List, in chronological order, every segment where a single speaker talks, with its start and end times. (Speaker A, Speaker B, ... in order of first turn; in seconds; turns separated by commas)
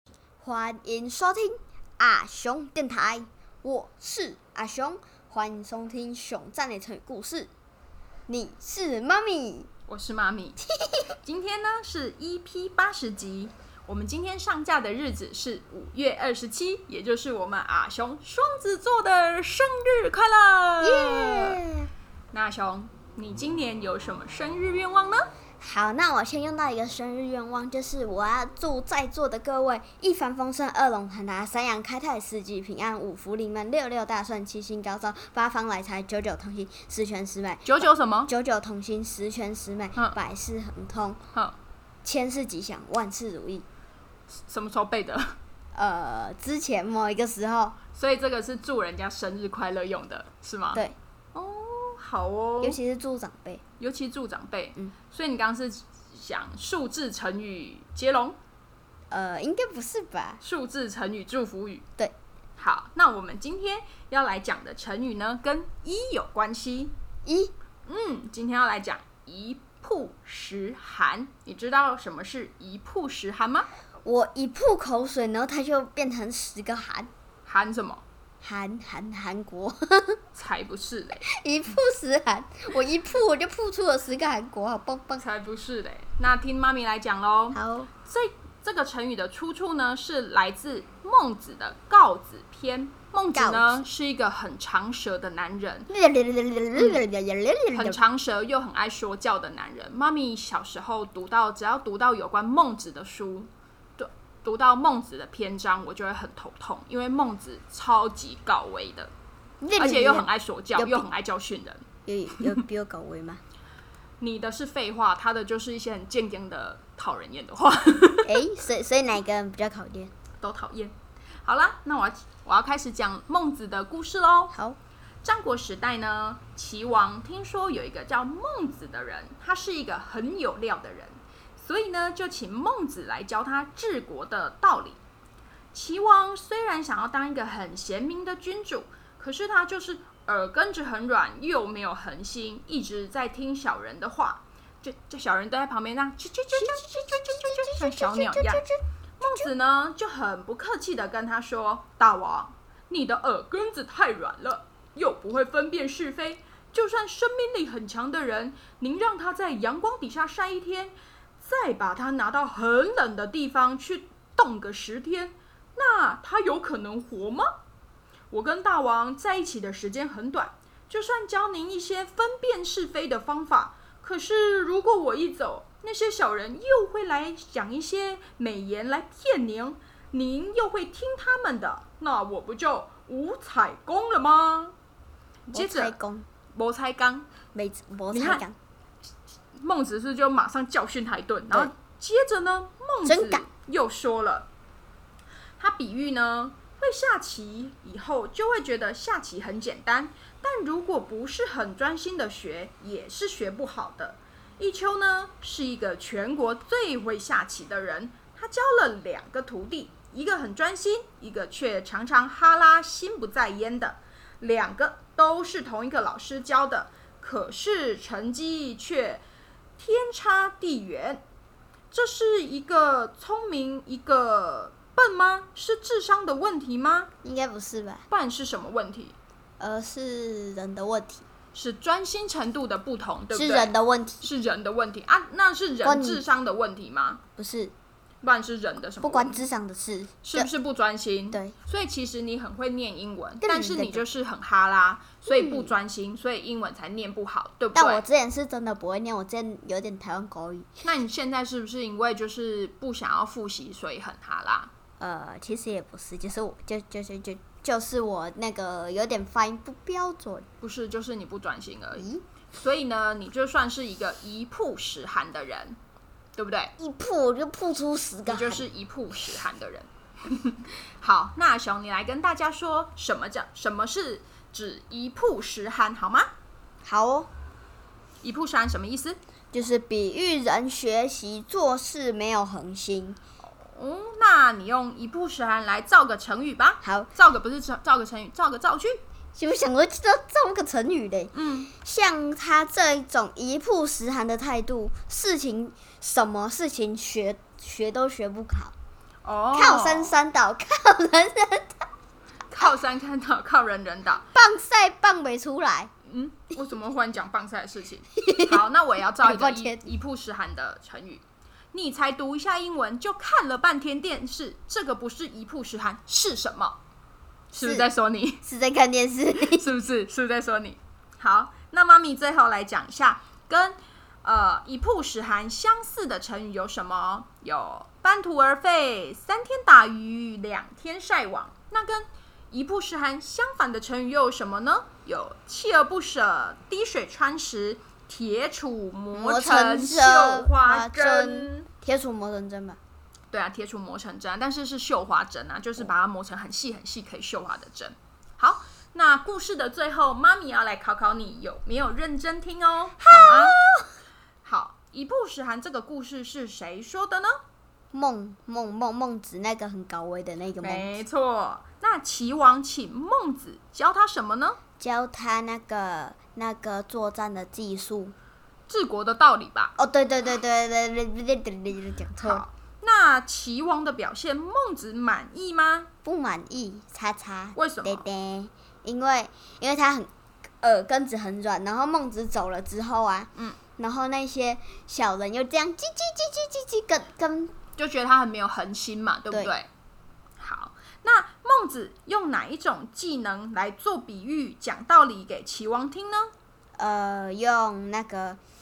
Speaker A: 0.4-7.5, Speaker A: 8.3-9.7, Speaker B: 9.9-10.6, Speaker B: 11.2-21.6, Speaker A: 20.8-21.9, Speaker B: 22.3-25.3, Speaker A: 25.6-41.2, Speaker B: 37.6-38.3, Speaker A: 42.0-43.6, Speaker B: 44.5-45.4, Speaker A: 45.7-47.8, Speaker B: 47.9-50.8, Speaker B: 51.4-52.8, Speaker A: 52.6-53.6, Speaker B: 53.8-58.4, Speaker A: 59.1-60.4, Speaker B: 60.4-61.9, Speaker B: 62.6-66.9, Speaker A: 67.3-67.5, Speaker B: 67.9-73.7, Speaker A: 74.0-77.1, Speaker B: 77.5-78.0, Speaker A: 78.4-80.2, Speaker B: 80.3-81.2, Speaker A: 81.2-85.2, Speaker B: 85.2-95.9, Speaker A: 87.5-87.9, Speaker A: 93.3-93.8, Speaker A: 95.9-98.0, Speaker B: 96.8-97.0, Speaker B: 97.7-109.1, Speaker A: 109.6-111.1, Speaker B: 109.8-112.6, Speaker A: 112.1-113.4, Speaker B: 114.2-118.5, Speaker A: 118.2-120.1, Speaker B: 120.4-124.5, Speaker A: 124.5-124.8, Speaker B: 125.2-135.0, Speaker B: 135.7-148.7, Speaker A: 146.5-149.5, Speaker B: 149.2-167.5, Speaker B: 168.3-184.8, Speaker A: 185.5-186.3, Speaker B: 185.5-186.0, Speaker B: 186.6-187.3, Speaker A: 187.5-188.6, Speaker B: 188.1-188.4, Speaker B: 189.6-194.5, Speaker A: 193.1-193.5, Speaker B: 195.6-219.2, Speaker B: 219.8-221.2, Speaker B: 221.9-227.1, Speaker A: 227.2-228.1, Speaker B: 228.1-229.2, Speaker A: 229.6-231.2, Speaker B: 231.5-237.2, Speaker A: 233.3-234.3, Speaker A: 235.8-236.2, Speaker A: 237.4-237.7, Speaker B: 238.2-239.4, Speaker A: 239.0-240.5, Speaker B: 240.2-248.0, Speaker A: 243.4-244.1, Speaker A: 245.3-245.7, Speaker A: 247.7-250.7, Speaker B: 250.8-254.7, Speaker A: 255.0-260.5, Speaker B: 260.6-265.8, Speaker A: 261.9-262.2, Speaker B: 266.4-266.7, Speaker A: 266.8-268.7, Speaker B: 268.3-276.3, Speaker A: 276.8-277.3, Speaker B: 278.2-279.2, Speaker A: 279.5-283.2, Speaker B: 283.4-289.0, Speaker A: 286.8-287.1, Speaker A: 289.4-298.7, Speaker B: 291.3-291.7, Speaker B: 299.2-300.2, Speaker A: 299.5-301.8, Speaker B: 302.5-304.3, Speaker A: 304.3-305.9, Speaker B: 306.1-316.8, Speaker A: 308.2-308.6, Speaker A: 309.2-309.9, Speaker B: 317.5-318.4, Speaker A: 317.6-317.9, Speaker A: 318.4-319.7, Speaker B: 319.4-341.7, Speaker A: 339.1-342.8, Speaker B: 343.3-353.6, Speaker A: 353.0-353.9, Speaker B: 354.4-357.4, Speaker A: 357.9-360.9, Speaker B: 360.6-364.6, Speaker A: 364.8-368.1, Speaker B: 368.7-369.7, Speaker A: 369.8-372.4, Speaker B: 372.2-375.9, Speaker A: 376.0-380.1, Speaker B: 377.6-378.1, Speaker A: 380.6-387.5, Speaker B: 387.8-389.7, Speaker B: 390.4-396.3, Speaker A: 396.8-398.4